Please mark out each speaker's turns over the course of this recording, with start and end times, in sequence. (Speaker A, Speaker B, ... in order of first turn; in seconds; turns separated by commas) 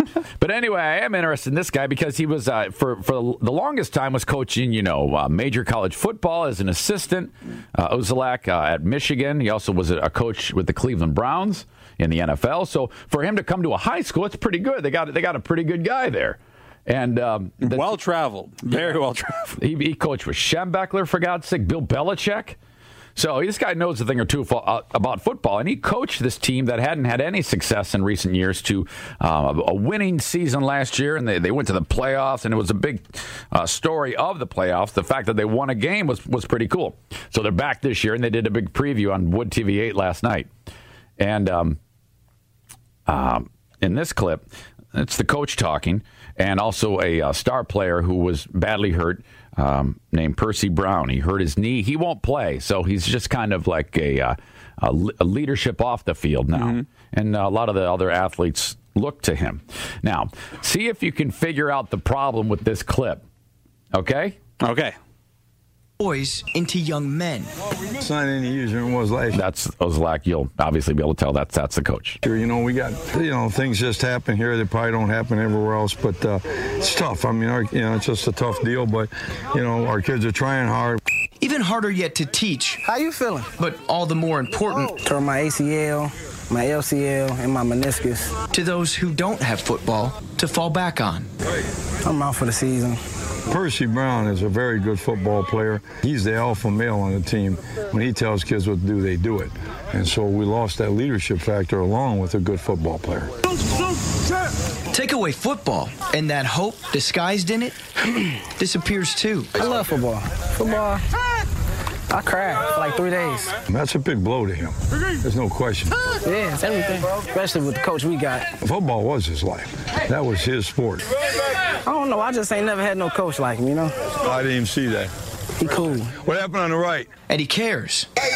Speaker A: 0.4-17.9, Speaker B: 17.6-19.4, Speaker A: 19.6-22.6, Speaker A: 23.1-40.5, Speaker A: 41.2-41.8, Speaker A: 43.1-63.2, Speaker B: 56.5-56.8, Speaker A: 63.9-64.4, Speaker B: 64.6-64.9, Speaker C: 66.0-67.5, Speaker D: 68.0-69.4, Speaker A: 69.3-72.2, Speaker D: 72.2-81.0, Speaker C: 81.4-82.8, Speaker E: 82.8-83.5, Speaker C: 83.6-84.9, Speaker E: 85.0-88.3, Speaker C: 88.5-91.3, Speaker E: 92.0-93.0, Speaker D: 93.5-103.3, Speaker C: 104.9-107.8, Speaker C: 108.6-109.5, Speaker E: 109.6-111.0, Speaker E: 112.1-113.5, Speaker D: 113.7-115.9, Speaker E: 116.2-118.5, Speaker D: 118.6-121.1, Speaker E: 121.8-123.9, Speaker D: 124.2-125.1, Speaker E: 125.6-126.2, Speaker D: 126.2-127.1, Speaker C: 127.3-128.1